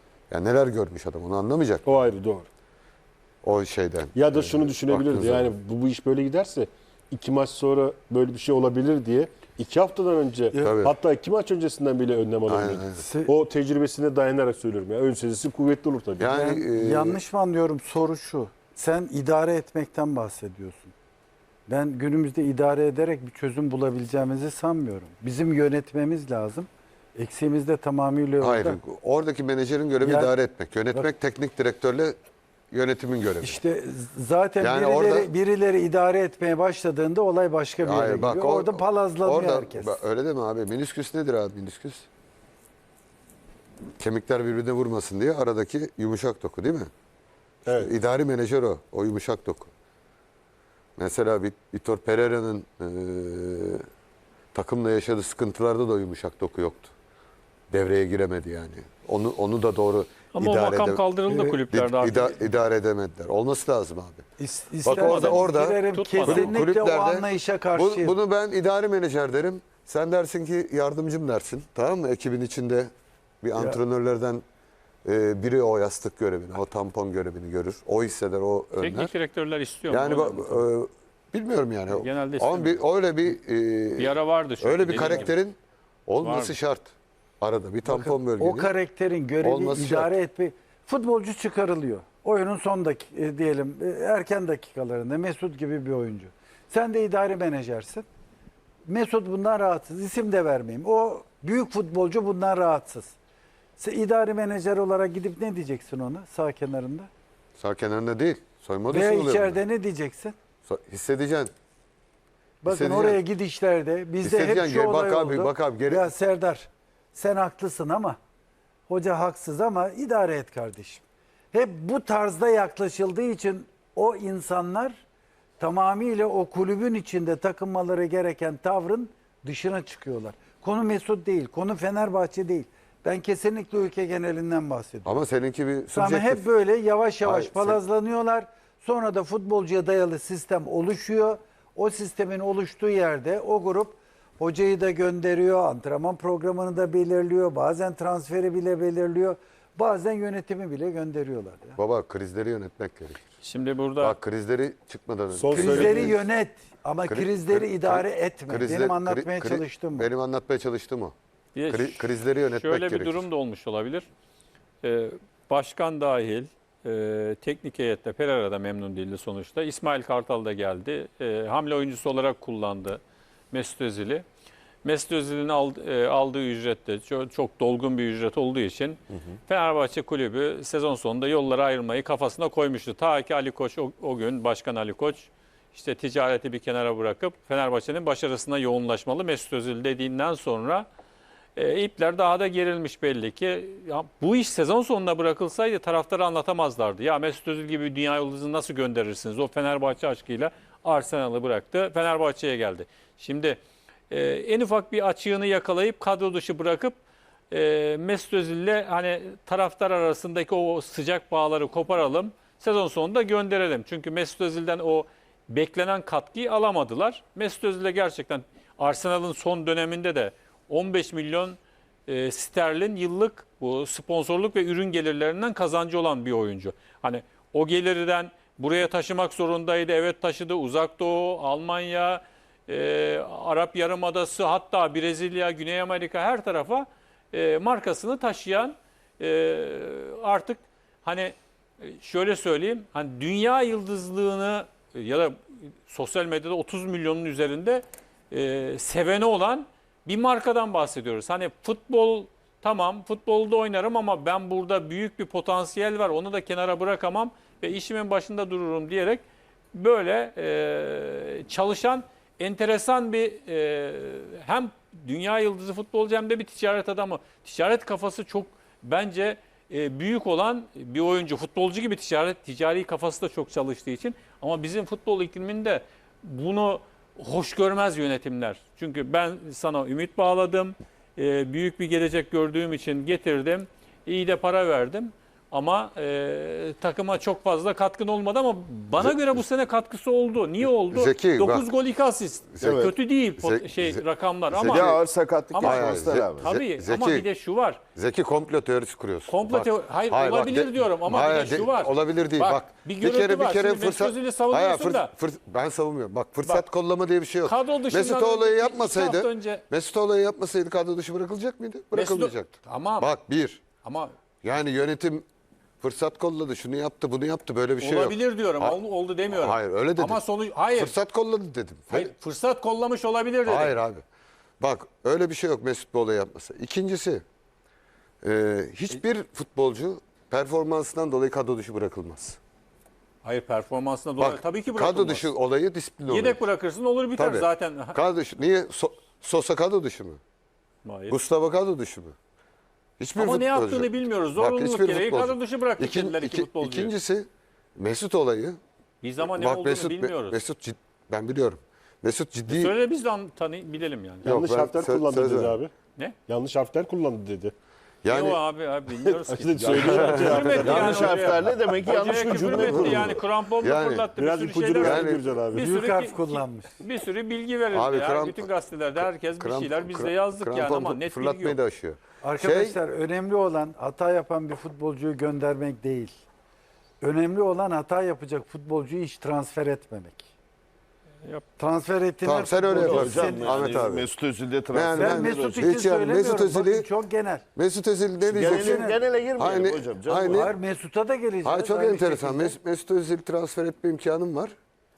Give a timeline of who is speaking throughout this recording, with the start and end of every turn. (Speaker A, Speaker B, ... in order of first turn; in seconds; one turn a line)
Speaker A: 0.3-1.8
Speaker B: 1.8-2.5
Speaker A: 3.4-5.5
Speaker B: 4.2-16.4
Speaker A: 10.6-11.0
Speaker A: 12.5-13.0
Speaker C: 13.1-13.3
Speaker A: 16.2-17.2
Speaker C: 16.3-20.9
Speaker C: 21.7-28.8
Speaker A: 28.4-32.2
Speaker C: 30.0-30.3
Speaker A: 32.7-33.6
Speaker C: 33.4-40.0
Speaker A: 34.6-35.3
Speaker A: 37.8-42.1
Speaker A: 44.0-46.9
Speaker B: 47.7-47.9
Speaker A: 47.7-49.7
Speaker A: 51.0-53.9
Speaker A: 54.5-56.9
Speaker A: 57.7-61.0
Speaker D: 60.3-62.4
Speaker C: 61.3-61.5
Speaker A: 61.7-64.2
Speaker C: 64.4-68.2
Speaker A: 64.8-72.9
Speaker D: 64.9-66.6
Speaker A: 73.4-74.4
Speaker A: 75.0-79.1
Speaker D: 78.8-80.7
Speaker A: 79.9-85.5
Speaker D: 81.9-82.8
Speaker D: 84.0-85.3
Speaker A: 86.1-88.7
Speaker D: 86.2-86.5
Speaker C: 87.8-98.0
Speaker A: 89.4-90.1
Speaker C: 98.9-103.2
Speaker C: 103.8-107.1
Speaker A: 107.6-109.6
Speaker C: 108.9-110.3
Speaker A: 110.7-111.5
Speaker C: 112.6-118.2
Speaker A: 112.7-113.2
Speaker A: 114.2-116.1
Speaker C: 118.9-125.0
Speaker C: 125.6-135.1
Speaker A: 135.0-136.4
Speaker C: 135.9-151.8
Speaker A: 137.2-137.8
Speaker A: 151.8-153.3
Speaker D: 153.4-154.2
Speaker A: 154.0-156.2
Speaker B: 155.3-156.2
Speaker C: 155.5-160.1
Speaker A: 157.1-161.1
Speaker D: 161.5-164.1
Speaker A: 161.7-163.3
Speaker D: 164.8-174.2
Speaker D: 174.8-190.8
Speaker D: 191.6-207.0
Speaker D: 207.5-297.8
Speaker A: 289.0-289.4
Speaker A: 290.8-291.7
Speaker A: 292.6-292.9
Speaker E: 292.6-292.9
Speaker A: 293.4-294.0
Speaker E: 294.5-296.5
Speaker A: 294.6-295.0
Speaker A: 295.6-297.3
Speaker A: 298.0-313.6
Speaker D: 299.3-305.1
Speaker D: 307.4-309.6
Speaker D: 311.9-313.1
Speaker D: 313.8-314.1
Speaker A: 314.4-315.2
Speaker A: 315.8-320.2
Speaker D: 317.8-321.0
Speaker A: 320.8-322.1
Speaker D: 321.9-323.8
Speaker A: 323.5-324.0
Speaker A: 324.6-327.2
Speaker A: 328.2-332.4
Speaker D: 333.2-335.3
Speaker A: 334.2-336.4
Speaker D: 336.1-338.0
Speaker A: 337.2-340.2
Speaker D: 340.8-341.2
Speaker A: 341.1-342.1
Speaker A: 343.0-348.6
Speaker D: 343.2-346.9
Speaker D: 349.0-350.4
Speaker A: 349.2-352.8
Speaker D: 352.5-354.2
Speaker A: 354.2-355.6
Speaker B: 354.2-355.7
Speaker B: 356.3-357.6
Speaker A: 358.0-358.4
Speaker D: 358.1-371.6
Speaker B: 359.3-361.3
Speaker E: 359.6-363.2
Speaker A: 359.8-361.3
Speaker A: 362.6-363.1
Speaker A: 363.6-364.1
Speaker B: 364.2-365.7
Speaker A: 364.8-365.3
Speaker C: 365.6-366.8
Speaker A: 367.7-372.8
Speaker C: 372.2-376.1
Speaker C: 377.0-380.3
Speaker C: 381.6-383.8
Speaker A: 382.2-384.1
Speaker E: 382.7-385.7
Speaker A: 384.7-386.9
Speaker C: 384.9-387.4
Speaker A: 387.6-390.5
Speaker E: 388.2-390.6
Speaker C: 388.5-389.0
Speaker C: 390.3-392.6
Speaker A: 391.4-394.5